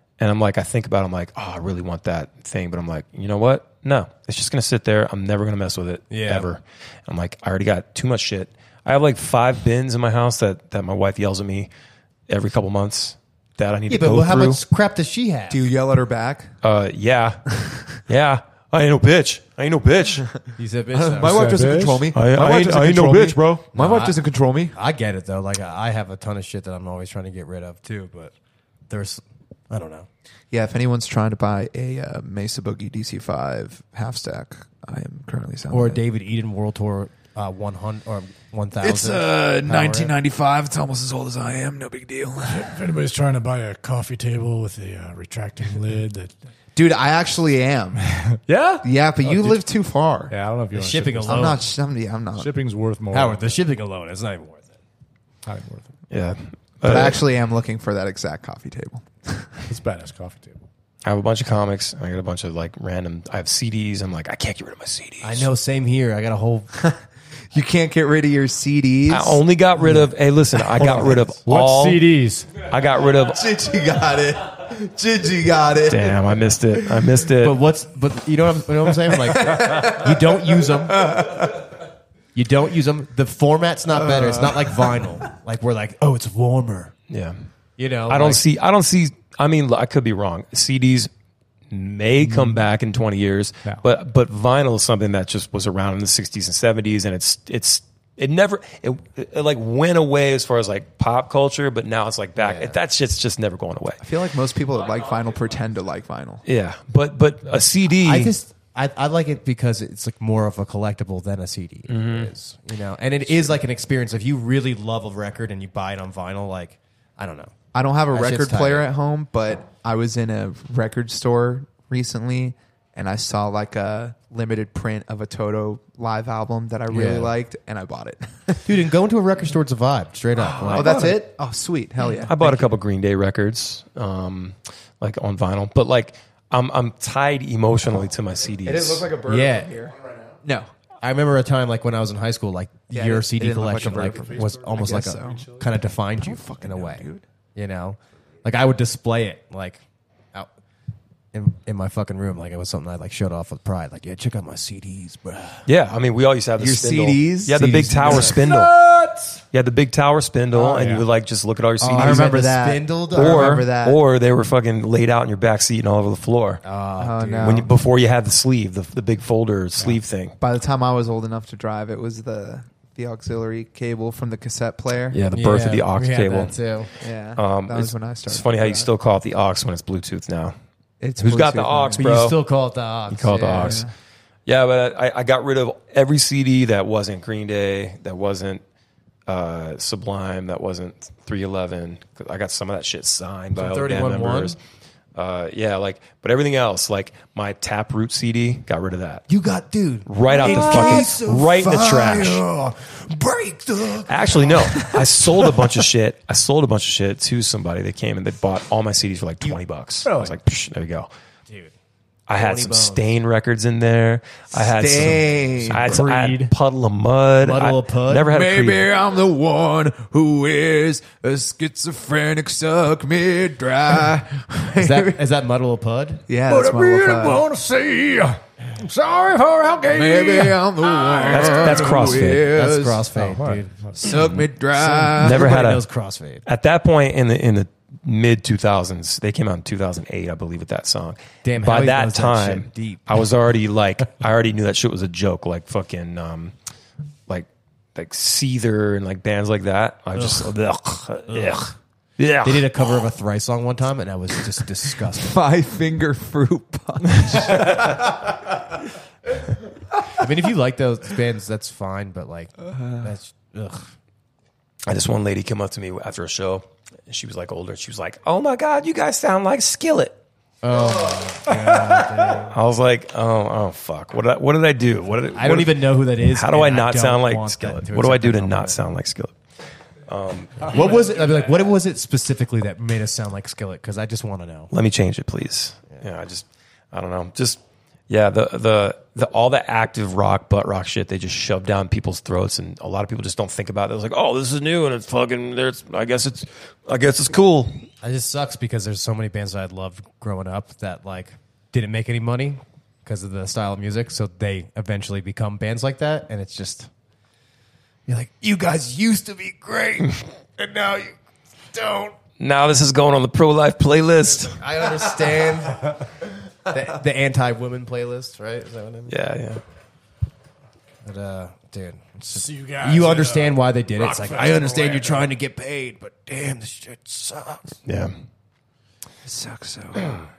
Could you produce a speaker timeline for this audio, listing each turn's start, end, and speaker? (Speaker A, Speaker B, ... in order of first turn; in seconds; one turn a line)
Speaker A: 0.2-11.7
Speaker B: 6.1-6.5
Speaker A: 12.3-14.6
Speaker B: 13.9-15.6
Speaker C: 15.5-16.5
Speaker A: 16.6-17.5
Speaker A: 18.1-20.3
Speaker B: 20.6-21.6
Speaker C: 20.9-24.8
Speaker D: 21.2-22.1
Speaker A: 22.1-23.6
Speaker B: 23.7-24.2
Speaker B: 24.7-28.3
Speaker B: 28.9-30.1
Speaker C: 30.5-36.0
Speaker B: 35.7-40.1
Speaker C: 38.8-42.7
Speaker D: 42.4-46.3
Speaker C: 46.8-48.1
Speaker D: 48.5-49.6
Speaker C: 48.8-50.3
Speaker D: 50.3-51.6
Speaker B: 50.8-51.6
Speaker C: 51.3-52.5
Speaker D: 52.4-53.6
Speaker B: 53.1-54.8
Speaker D: 55.5-55.9
Speaker A: 56.1-57.2
Speaker C: 56.8-59.5
Speaker D: 59.7-60.6
Speaker A: 61.0-65.5
Speaker B: 65.2-66.7
Speaker C: 66.8-69.4
Speaker A: 69.1-73.5
Speaker D: 70.7-72.6
Speaker C: 73.2-77.2
Speaker A: 75.8-77.6
Speaker B: 77.4-81.1
Speaker C: 79.1-81.7
Speaker B: 82.3-86.9
Speaker C: 84.0-85.0
Speaker A: 87.1-87.4
Speaker B: 87.8-88.4
Speaker A: 88.1-91.1
Speaker A: 91.7-104.0
Speaker D: 92.3-92.6
Speaker B: 102.4-102.8
Speaker C: 104.0-106.4
Speaker A: 106.4-108.3
Speaker B: 108.0-117.5
Speaker A: 111.9-112.3
Speaker A: 113.3-113.5
Speaker C: 117.7-128.7
Speaker B: 118.1-118.9
Speaker B: 126.9-127.3
Speaker B: 128.6-131.2
Speaker A: 130.6-131.1
Speaker C: 130.7-132.8
Speaker A: 132.0-139.1
Speaker C: 138.6-140.7
Speaker B: 139.3-139.8
Speaker B: 141.0-149.8
Speaker C: 142.9-145.4
Speaker D: 143.8-145.8
Speaker C: 146.2-147.2
Speaker B: 151.3-155.7
Speaker A: 155.7-158.8
Speaker C: 156.6-158.4
Speaker D: 158.0-159.4
Speaker A: 159.5-162.4
Speaker D: 160.7-161.1
Speaker C: 161.8-164.0
Speaker B: 161.9-163.6
Speaker A: 163.1-166.6
Speaker B: 166.6-167.7
Speaker C: 167.0-167.7
Speaker A: 167.4-170.4
Speaker C: 170.4-175.2
Speaker A: 175.1-176.6
Speaker B: 175.3-176.9
Speaker C: 177.0-178.9
Speaker A: 177.3-180.6
Speaker C: 181.0-182.1
Speaker A: 181.2-182.4
Speaker B: 182.0-183.8
Speaker A: 183.1-183.9
Speaker C: 183.5-183.9
Speaker A: 184.5-188.6
Speaker A: 189.3-194.6
Speaker B: 193.5-194.6
Speaker A: 195.2-199.3
Speaker B: 199.3-205.0
Speaker A: 200.1-202.4
Speaker C: 200.4-201.1
Speaker A: 204.1-211.1
Speaker D: 210.1-210.4
Speaker B: 211.5-211.7
Speaker A: 212.3-218.9
Speaker B: 212.3-213.2
Speaker C: 214.5-216.1
Speaker D: 215.7-216.5
Speaker B: 217.4-218.3
Speaker C: 218.2-225.2
Speaker B: 224.8-226.2
Speaker C: 226.3-227.5
Speaker D: 226.5-232.0
Speaker C: 229.9-233.1
Speaker A: 231.3-232.5
Speaker B: 231.6-234.1
Speaker D: 233.2-233.9
Speaker C: 234.0-235.5
Speaker A: 234.1-234.5
Speaker B: 234.8-236.4
Speaker A: 235.2-235.9
Speaker A: 236.5-246.6
Speaker B: 241.4-243.2
Speaker A: 247.3-252.9
Speaker B: 250.2-250.5
Speaker B: 251.3-251.7
Speaker B: 252.4-255.4
Speaker C: 255.1-258.6
Speaker C: 259.9-260.2
Speaker B: 260.1-263.9
Speaker C: 262.6-263.1
Speaker A: 264.9-270.2
Speaker B: 270.6-272.6
Speaker A: 271.5-279.4
Speaker B: 275.4-278.8
Speaker A: 280.1-280.9
Speaker B: 280.6-284.7
Speaker D: 280.8-281.7
Speaker A: 284.7-297.8
Speaker B: 298.0-306.9
Speaker B: 308.1-311.2
Speaker B: 311.7-312.2
Speaker A: 312.4-314.6
Speaker B: 314.4-316.1
Speaker B: 316.6-319.2
Speaker A: 319.1-319.6
Speaker B: 321.0-327.8
Speaker D: 322.3-325.3
Speaker A: 327.9-328.2
Speaker C: 329.3-330.3